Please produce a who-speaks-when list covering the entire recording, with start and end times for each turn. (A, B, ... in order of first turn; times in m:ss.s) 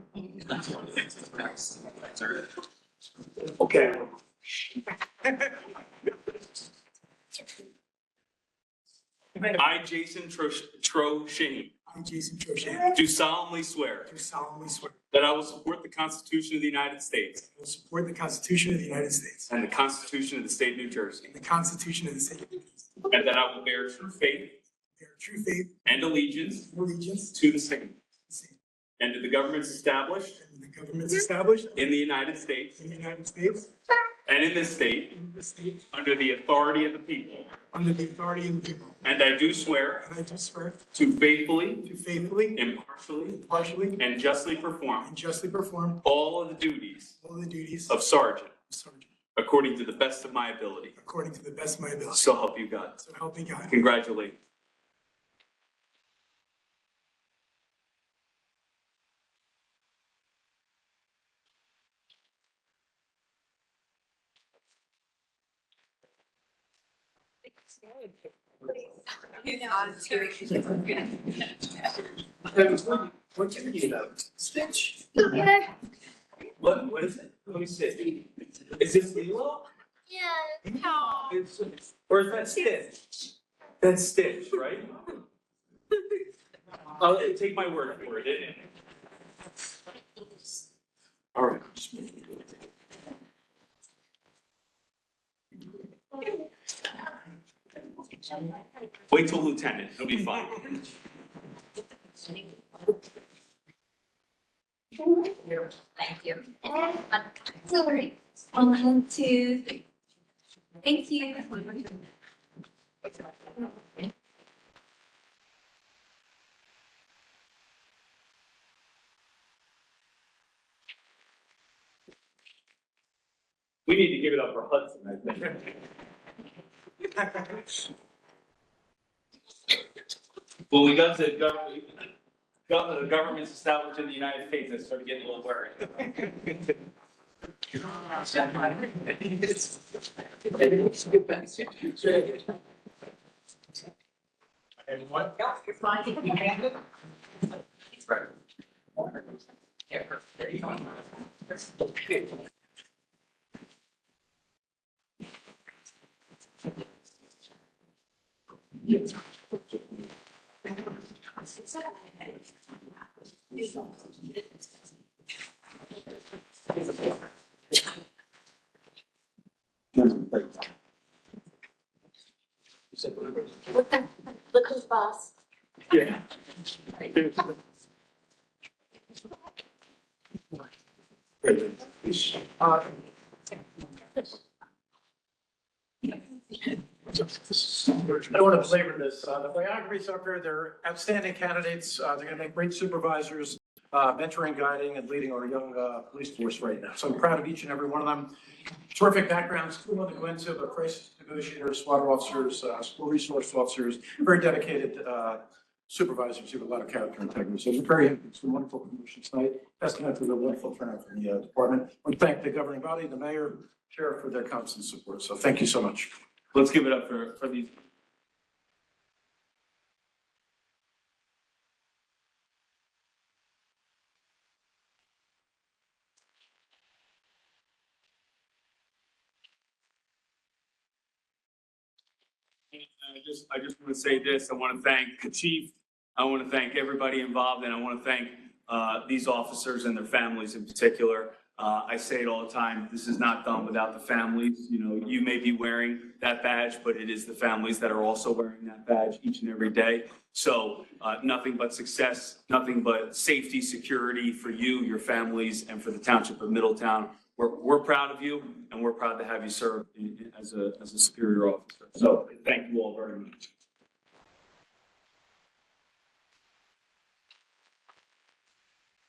0:00.5-0:02.4 A
0:03.6-0:04.1 A
0:09.4-0:11.7 A
0:11.9-0:13.0 B
0:12.8-0:14.1 A
0:14.1-0:15.0 B
0:15.1-0:17.4 A
0:17.5-0:19.5 B
0:19.5-0:21.3 A
0:21.3-0:22.6 B
0:23.1-0:24.6 A
0:25.0-0:25.7 B
0:25.9-0:26.7 A
0:26.7-0:27.4 B
0:27.3-0:28.0 A
0:29.0-0:30.4 A
0:30.4-0:31.8 B
0:31.8-0:32.8 A
0:32.8-0:33.7 B
0:34.3-0:35.2 A
0:35.2-0:35.8 B
0:35.9-0:37.5 A
0:37.7-0:39.0 B
0:39.0-0:40.1 A
0:40.0-0:40.9 B
0:40.9-0:41.9 A
0:41.8-0:42.6 B
0:42.5-0:45.1 A
0:43.4-0:44.0 B
0:45.0-0:46.0 B
0:46.0-0:47.1 A
0:47.2-0:48.0 B
0:47.9-0:48.5 A
0:48.7-0:49.1 B
0:49.4-0:51.0 A
0:51.0-0:52.3 B
0:52.1-0:53.0 A
0:53.0-0:53.8 B
0:53.7-0:54.4 A
1:09.3-1:11.3 C
1:12.5-1:15.0 A
1:15.2-1:15.7 C
1:16.6-1:19.7 A
1:20.1-1:21.3 C
1:21.0-1:24.9 A
1:27.0-1:28.7 A
1:31.4-1:32.2 A
1:39.1-1:40.9 A
1:45.0-1:49.8 C
1:50.8-1:52.0 C
2:03.9-2:05.8 A
2:10.7-2:12.1 A
2:12.7-2:16.5 A
2:24.9-2:25.4 D
2:50.0-2:50.5 A
2:53.6-2:55.3 C
2:55.9-2:56.2 A
3:01.4-3:01.9 A
3:07.5-3:18.4 D
3:18.9-3:36.1 D
3:36.5-3:37.7 A
3:52.7-4:23.4 A